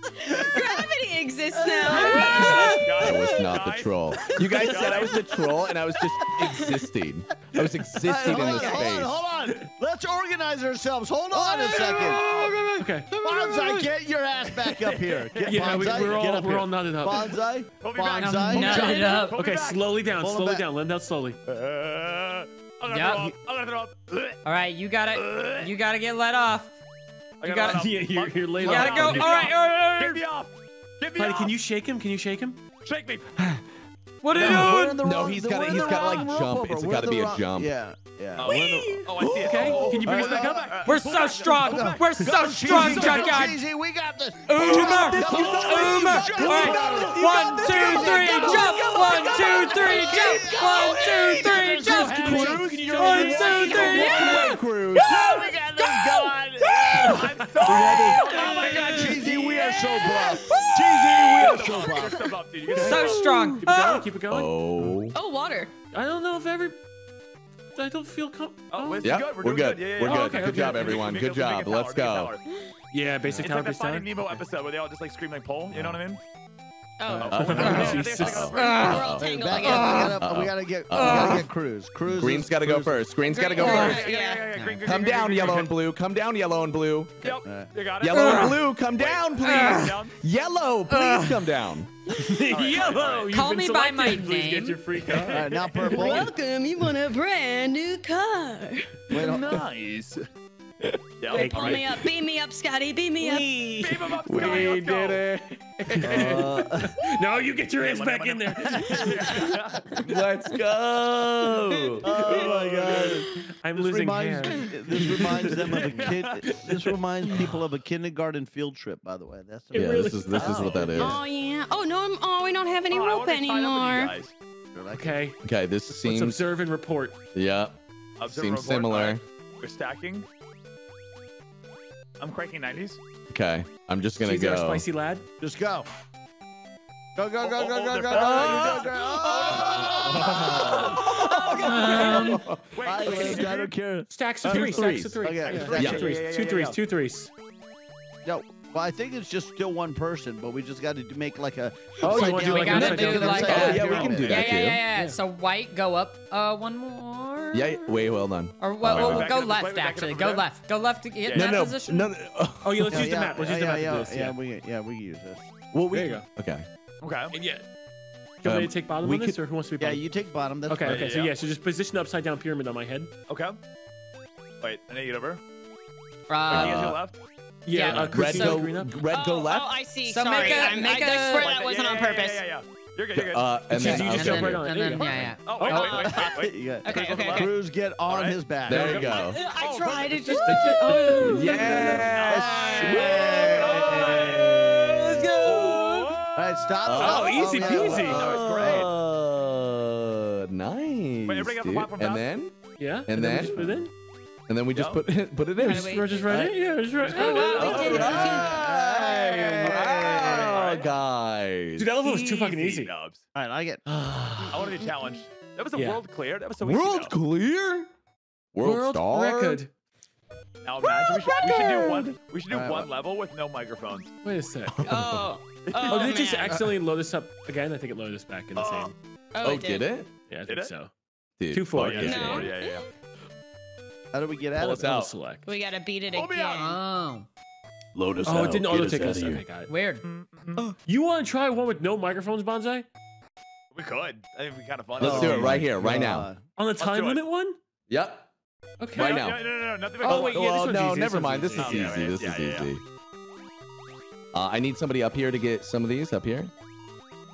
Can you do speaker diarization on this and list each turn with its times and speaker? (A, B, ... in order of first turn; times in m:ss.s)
0:00.2-0:03.4 A
0:01.6-0:03.4 B
0:02.1-0:02.8 C
0:02.7-0:05.3 D
0:03.0-0:09.2 E
0:04.4-0:04.6 C
0:06.3-0:06.8 A
0:07.6-0:12.4 B
0:08.3-0:08.9 A
0:11.3-0:13.9 A
0:12.8-0:13.1 C
0:13.2-0:19.2 B
0:15.0-0:16.4 D
0:15.4-0:17.4 C
0:17.8-0:20.0 D
0:18.0-0:19.4 F
0:19.3-0:21.4 C
0:20.1-0:20.6 B
0:21.5-0:24.4 D
0:22.9-0:23.3 F
0:24.4-0:26.7 F
0:25.1-0:25.7 D
0:27.4-0:27.9 F
0:27.4-0:31.5 D
0:27.6-0:29.6 C
0:28.6-0:30.2 F
0:31.2-0:32.6 C
0:32.8-0:33.3 D
0:34.2-0:35.1 F
0:34.3-0:41.0 B
0:34.4-0:34.7 D
0:34.4-0:37.7 E
0:38.4-0:42.2 D
0:38.5-0:40.0 E
0:39.4-0:40.8 C
0:40.8-0:43.6 F
0:41.6-1:02.8 B
0:42.7-0:43.5 D
0:44.5-0:54.5 F
0:44.6-0:50.0 E
0:49.7-0:50.6 A
0:50.7-0:55.1 E
0:51.6-0:54.5 C
0:52.0-0:52.4 D
0:57.0-0:58.1 C
0:57.0-1:00.3 D
0:58.2-1:00.8 A
1:01.1-1:03.4 D
1:02.7-1:04.5 C
1:02.8-1:04.1 F
1:04.3-1:05.2 E
1:05.1-1:05.7 A
1:05.9-1:06.8 C
1:07.8-1:09.2 C
1:08.7-1:12.4 D
1:09.0-1:12.3 E
1:10.0-1:11.1 C
1:12.9-1:14.4 C
1:13.3-1:16.2 D
1:17.0-1:17.7 A
1:17.1-1:18.0 B
1:17.1-1:19.0 D
1:17.3-1:19.3 E
1:17.3-1:18.7 C
1:17.6-1:18.0 F
1:18.4-1:20.2 A
1:18.6-1:19.0 F
1:19.2-1:23.1 B
1:19.6-1:20.2 F
1:20.2-1:21.5 E
1:20.9-1:21.5 F
1:22.1-1:24.1 E
1:23.2-1:24.6 A
1:23.6-1:25.8 D
1:23.6-1:24.0 F
1:24.8-1:27.2 E
1:27.2-1:30.2 D
1:27.2-1:27.7 B
1:28.0-1:31.9 E
1:28.1-1:28.6 F
1:29.4-1:30.0 F
1:30.9-1:31.5 F
1:32.1-1:36.2 C
1:32.5-1:33.4 D
1:33.3-1:34.8 F
1:35.1-1:36.4 B
1:35.9-1:39.0 A
1:39.1-1:39.7 B
1:39.2-1:40.2 D
1:41.2-1:41.9 D
1:41.3-1:41.9 C
1:41.3-1:43.6 A
1:43.2-1:44.5 C
1:43.8-1:45.2 D
1:44.0-1:47.0 E
1:45.9-1:49.6 C
1:46.0-1:47.0 B
1:47.8-1:50.2 D
1:48.8-1:49.1 B
1:50.0-1:52.6 E
1:52.0-2:01.2 B
1:52.1-1:57.5 C
1:55.8-1:56.6 D
1:59.7-2:01.2 C
1:59.7-2:01.2 E
2:00.9-2:04.2 A
2:02.9-2:04.3 D
2:04.7-2:05.2 B
2:04.9-2:07.2 C
2:05.4-2:06.4 E
2:07.3-2:09.2 E
2:08.2-2:10.3 D
2:12.2-2:13.0 D
2:13.3-2:14.9 E
2:14.2-2:15.3 C
2:15.4-2:15.9 B
2:17.2-2:26.2 B
2:17.4-2:23.8 D
2:18.1-2:23.2 E
2:19.7-2:21.0 C
2:21.8-2:22.3 F
2:21.9-2:22.2 C
2:23.1-2:23.4 C
2:24.1-2:27.3 C
2:24.4-2:25.2 E
2:25.5-2:26.8 D
2:25.8-2:26.1 E
2:28.2-2:34.6 B
2:32.0-2:35.2 C
2:32.1-2:42.1 F
2:32.8-2:34.8 E
2:37.5-2:39.3 E
2:38.9-2:40.5 D
2:41.2-2:41.6 D
2:41.3-2:43.2 E
2:42.6-2:44.4 C
2:42.9-2:45.5 B
2:45.7-2:46.7 E
2:45.9-2:46.2 C
2:47.0-2:47.3 D
2:47.3-2:47.6 C
2:48.4-2:49.4 E
2:48.4-2:50.1 C
2:49.8-2:51.1 B
2:50.7-2:53.1 C
2:50.8-2:51.3 D
2:53.3-2:53.6 D
2:54.6-2:55.4 D
2:56.3-2:56.8 F
2:56.5-2:57.2 D
2:56.5-2:57.0 E
2:57.6-2:59.0 C
2:57.7-2:58.6 F
2:57.8-2:59.8 E
2:59.1-3:02.4 A
3:00.1-3:01.5 F
3:01.3-3:04.0 D
3:03.1-3:05.3 E
3:03.7-3:05.4 C
3:03.8-3:06.1 F
3:05.4-3:08.4 D
3:05.6-3:07.6 A
3:06.0-3:09.1 B
3:08.7-3:09.4 E
3:08.7-3:09.3 C
3:08.9-3:16.2 A
3:09.6-3:10.5 D
3:10.2-3:12.1 C
3:10.5-3:14.8 E
3:11.3-3:15.8 B
3:11.8-3:14.7 D
3:15.4-3:18.9 D
3:16.4-3:18.9 B
3:16.8-3:23.9 E
3:17.0-3:18.2 C
3:21.2-3:22.2 D
3:22.8-3:23.9 C
3:24.5-3:26.0 E
3:24.8-3:25.0 D
3:25.6-3:26.3 A
3:25.6-3:28.4 C
3:26.3-3:26.6 B
3:27.1-3:30.9 D
3:27.1-3:28.4 F
3:27.2-3:28.5 A
3:27.6-3:31.9 E
3:27.9-3:30.6 B
3:31.8-3:32.9 C
3:32.1-3:33.3 D
3:33.4-3:33.8 B
3:33.9-3:34.8 E
3:34.5-3:37.2 D
3:35.7-3:36.0 C
3:36.6-3:37.9 E
3:38.5-3:39.6 E
3:38.6-3:39.7 C
3:40.6-3:44.1 D
3:40.9-3:42.1 A
3:42.5-3:42.9 B
3:44.2-3:45.0 C
3:44.7-3:45.4 E
3:44.8-3:46.6 A
3:45.6-3:46.6 D
3:45.9-3:49.0 C
3:48.6-3:48.9 D
3:49.3-3:49.9 A
3:49.4-3:50.1 E
3:50.3-3:50.9 C
3:51.4-3:52.5 E
3:51.5-3:52.4 C
3:51.8-3:52.9 D
3:52.0-3:52.9 A
3:54.1-3:55.0 B
3:54.6-3:55.5 C
3:54.6-3:55.1 E
3:55.5-3:56.8 A
3:56.5-3:57.3 F
3:57.9-3:59.4 E
3:58.2-3:59.7 C
3:59.7-4:00.0 F
4:00.0-4:00.6 D
4:00.9-4:02.9 C
4:03.7-4:05.7 D
4:05.0-4:06.4 B
4:05.0-4:06.3 E
4:06.6-4:07.6 C
4:06.8-4:07.2 D
4:07.9-4:08.3 E
4:08.8-4:09.3 C
4:09.0-4:09.4 E
4:09.0-4:10.5 D
4:10.0-4:12.8 E
4:10.0-4:12.1 C
4:11.6-4:12.7 D
4:14.3-4:16.5 E